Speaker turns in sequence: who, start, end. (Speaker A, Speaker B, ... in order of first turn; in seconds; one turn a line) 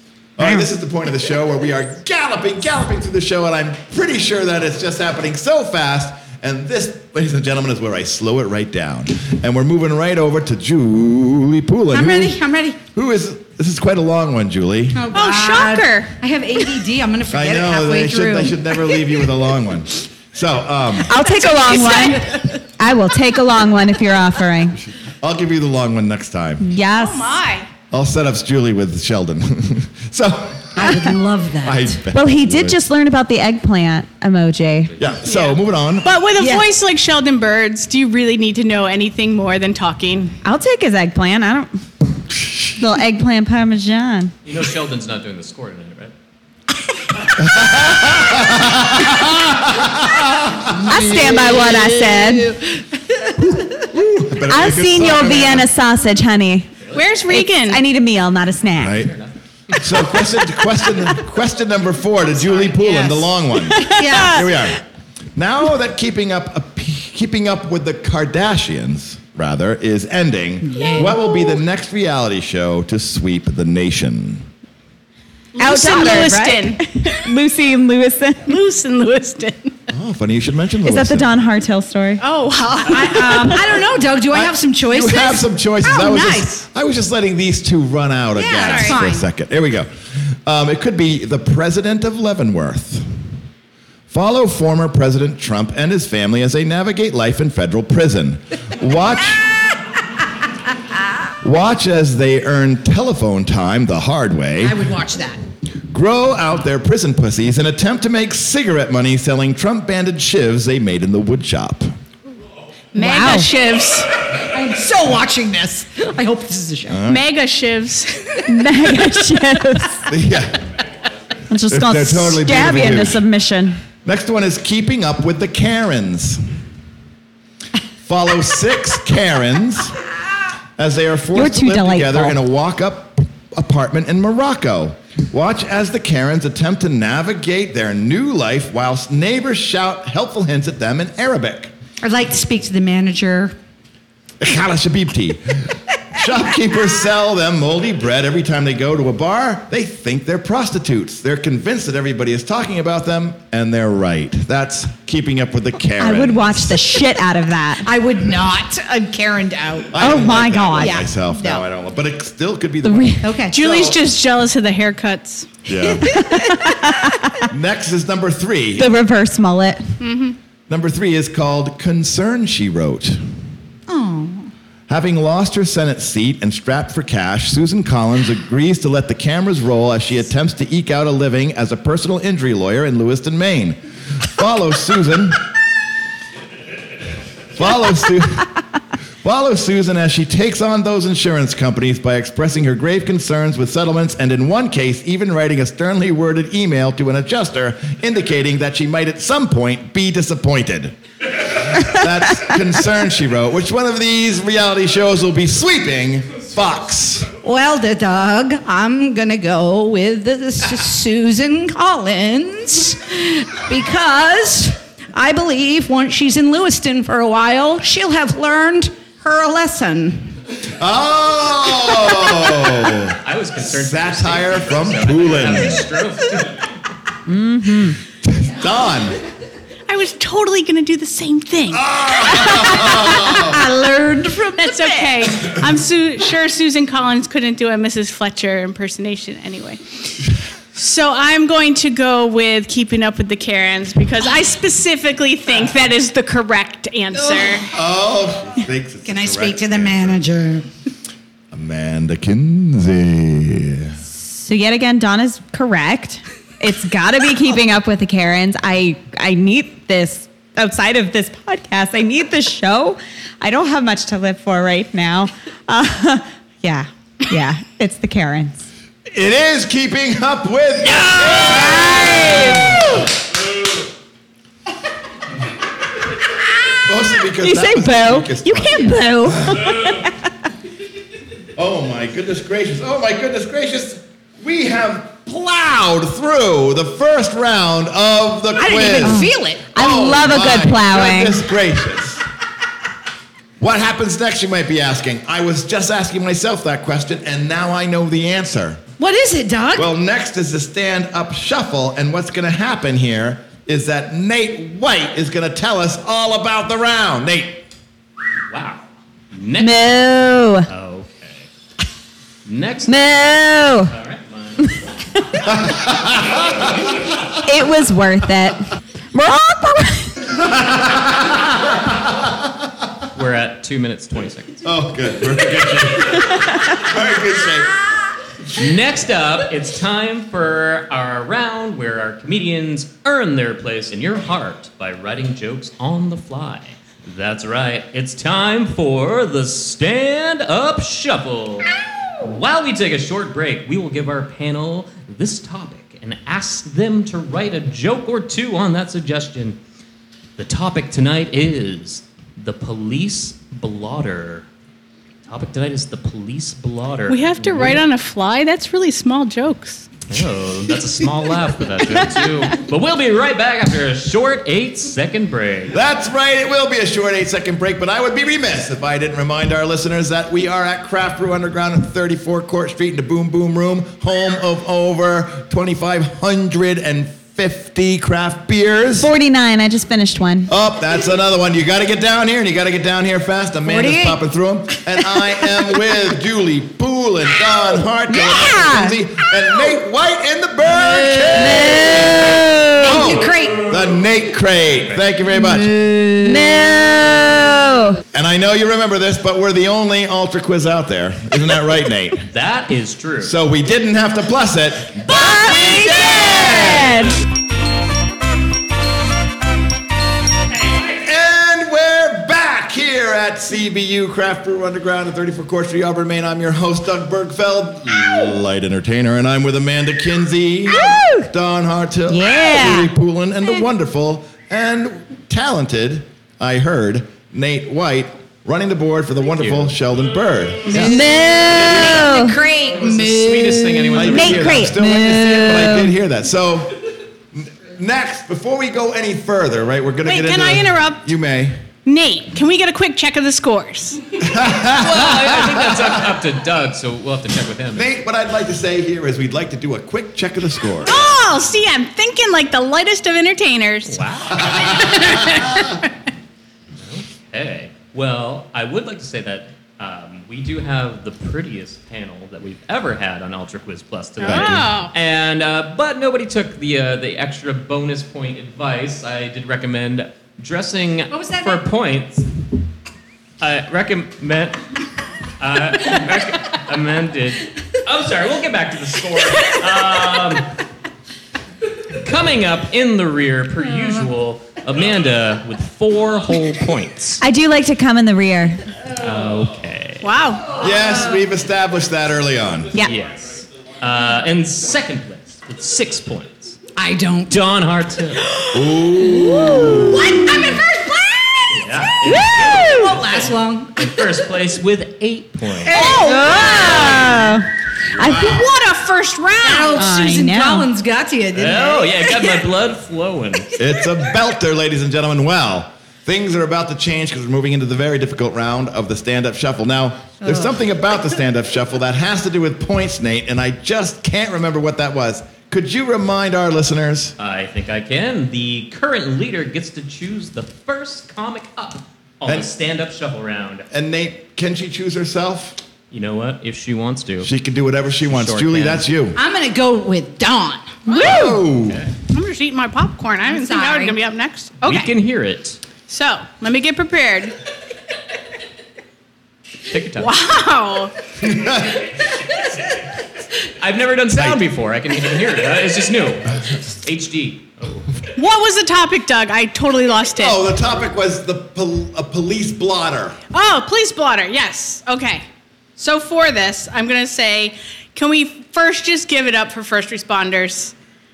Speaker A: 0.4-15.1
Speaker B: 11.9-12.8
Speaker B: 14.9-19.1
Speaker C: 15.1-16.2
Speaker A: 17.3-21.2
Speaker D: 21.1-24.8
Speaker C: 21.5-22.4
Speaker A: 25.2-26.6
Speaker D: 26.6-27.4
Speaker C: 26.9-27.7
Speaker A: 27.9-31.0
Speaker B: 30.8-32.0
Speaker A: 31.6-32.8
Speaker D: 32.1-35.0
Speaker A: 35.0-36.2
Speaker C: 35.3-40.4
Speaker D: 40.4-41.8
Speaker D: 42.8-44.3
Speaker E: 44.5-46.1
Speaker A: 47.4-50.9
Speaker B: 50.7-53.8
Speaker D: 50.9-52.5
Speaker A: 53.7-55.7
Speaker D: 54.5-56.8
Speaker C: 56.9-57.8
Speaker D: 57.3-59.1
Speaker A: 58.8-59.2
Speaker E: 59.1-59.9
Speaker A: 59.7-64.8
Speaker B: 62.7-63.3
Speaker D: 63.7-64.7
Speaker B: 63.8-64.5
Speaker A: 65.4-74.5
Speaker B: 70.6-71.3
Speaker C: 75.6-77.2
Speaker D: 75.6-78.6
Speaker C: 78.5-79.8
Speaker A: 79.9-81.4
Speaker D: 80.8-82.2
Speaker C: 82.2-83.5
Speaker B: 82.8-86.6
Speaker D: 83.2-83.6
Speaker A: 84.3-93.2
Speaker B: 88.4-89.3
Speaker C: 88.5-89.0
Speaker A: 94.1-99.5
Speaker A: 101.4-104.8
Speaker B: 104.6-105.4
Speaker A: 105.9-111.9
Speaker C: 113.0-114.1
Speaker B: 113.0-113.5
Speaker B: 114.3-117.0
Speaker A: 116.9-117.3
Speaker C: 117.1-118.5
Speaker D: 118.5-120.1
Speaker A: 120.1-120.7
Speaker D: 121.5-123.8
Speaker A: 121.7-123.2
Speaker A: 124.0-126.4
Speaker A: 128.1-130.0
Speaker A: 130.8-141.7
Speaker D: 131.3-132.4
Speaker B: 142.0-143.6
Speaker A: 144.4-157.0
Speaker D: 156.0-157.9
Speaker B: 157.8-159.9
Speaker A: 159.9-164.0
Speaker D: 160.0-161.0
Speaker B: 160.8-161.6
Speaker D: 162.8-163.3
Speaker B: 163.2-163.8
Speaker C: 163.5-165.6
Speaker A: 165.7-166.2
Speaker B: 165.9-166.6
Speaker D: 166.1-167.5
Speaker A: 167.5-168.9
Speaker D: 168.8-169.8
Speaker C: 170.0-170.4
Speaker A: 170.7-173.2
Speaker B: 173.9-174.5
Speaker A: 174.9-185.4
Speaker A: 187.5-188.5
Speaker A: 189.2-207.3
Speaker B: 207.4-220.4
Speaker A: 220.8-225.8
Speaker E: 223.2-226.6
Speaker D: 227.3-228.0
Speaker A: 228.2-229.2
Speaker C: 229.9-232.8
Speaker A: 231.7-233.7
Speaker B: 232.3-234.9
Speaker C: 234.6-247.7
Speaker B: 247.4-247.6
Speaker A: 247.7-250.2
Speaker B: 249.1-250.7
Speaker A: 251.5-254.0
Speaker D: 254.1-268.7
Speaker A: 269.1-272.8
Speaker D: 271.2-273.1
Speaker A: 276.8-279.9
Speaker D: 277.4-280.2
Speaker A: 281.6-292.2
Speaker B: 288.6-289.7
Speaker D: 289.0-291.4
Speaker A: 293.6-298.8
Speaker B: 299.0-299.9
Speaker A: 299.8-307.6
Speaker E: 308.5-310.0
Speaker D: 309.6-310.7
Speaker E: 310.7-311.5
Speaker E: 312.4-313.2
Speaker D: 312.9-313.9
Speaker E: 313.9-314.8
Speaker A: 315.4-316.8
Speaker D: 317.4-320.2
Speaker A: 320.3-322.5
Speaker E: 323.1-324.7
Speaker A: 324.6-327.7
Speaker E: 328.5-349.6
Speaker E: 350.4-354.5
Speaker E: 355.3-357.8
Speaker C: 357.1-359.9
Speaker E: 360.1-365.8
Speaker A: 365.7-379.1
Speaker D: 379.0-380.5
Speaker A: 380.5-395.7
Speaker B: 383.7-384.2
Speaker D: 388.1-389.0
Speaker B: 390.7-393.7
Speaker D: 391.4-393.1
Speaker B: 395.4-396.6
Speaker D: 396.2-398.0
Speaker A: 398.1-402.2
Speaker E: 402.3-403.4
Speaker A: 403.2-407.1
Speaker D: 405.1-407.2
Speaker A: 410.9-432.0
Speaker D: 420.7-421.3
Speaker D: 422.1-422.9
Speaker E: 429.4-429.7
Speaker D: 430.7-432.4
Speaker B: 430.7-434.4
Speaker E: 432.8-434.7
Speaker A: 433.9-436.8
Speaker D: 434.1-435.9
Speaker A: 437.3-441.6
Speaker C: 440.1-441.0
Speaker C: 441.9-444.1
Speaker A: 444.2-446.0
Speaker E: 444.8-447.9
Speaker A: 447.8-451.0
Speaker C: 450.9-454.1
Speaker E: 453.9-455.0
Speaker A: 454.3-455.6
Speaker C: 454.8-455.8
Speaker E: 456.8-472.3
Speaker C: 464.2-464.9
Speaker A: 464.2-464.6
Speaker B: 471.1-471.6
Speaker E: 473.4-474.7
Speaker E: 475.4-480.6
Speaker E: 482.0-487.2
Speaker D: 487.2-488.6
Speaker E: 488.9-490.1
Speaker C: 490.0-490.6
Speaker A: 490.6-492.8
Speaker E: 492.9-496.6
Speaker B: 496.8-497.4
Speaker E: 497.3-498.3
Speaker B: 498.4-504.0
Speaker A: 498.5-500.1
Speaker D: 499.2-500.0
Speaker E: 501.5-505.8
Speaker D: 502.1-502.9
Speaker B: 505.6-507.4
Speaker D: 505.7-507.5
Speaker A: 507.9-508.5
Speaker D: 508.0-508.4
Speaker C: 508.0-509.9
Speaker B: 509.4-512.4
Speaker D: 509.8-510.7
Speaker E: 511.3-513.5
Speaker A: 513.6-527.2
Speaker B: 520.2-520.6
Speaker E: 527.2-533.7
Speaker A: 533.7-535.6
Speaker E: 535.9-537.3
Speaker A: 537.2-539.2
Speaker E: 538.0-538.9
Speaker B: 539.1-541.1
Speaker C: 540.9-541.4
Speaker A: 540.9-541.8
Speaker E: 541.6-541.9
Speaker C: 542.1-544.9
Speaker B: 543.2-544.0
Speaker E: 544.6-545.6
Speaker C: 545.9-547.4
Speaker E: 549.7-550.1
Speaker C: 550.0-550.9
Speaker A: 551.2-551.9
Speaker E: 553.6-557.9
Speaker C: 558.2-560.4
Speaker A: 560.2-563.2
Speaker C: 563.3-565.2
Speaker C: 565.8-570.7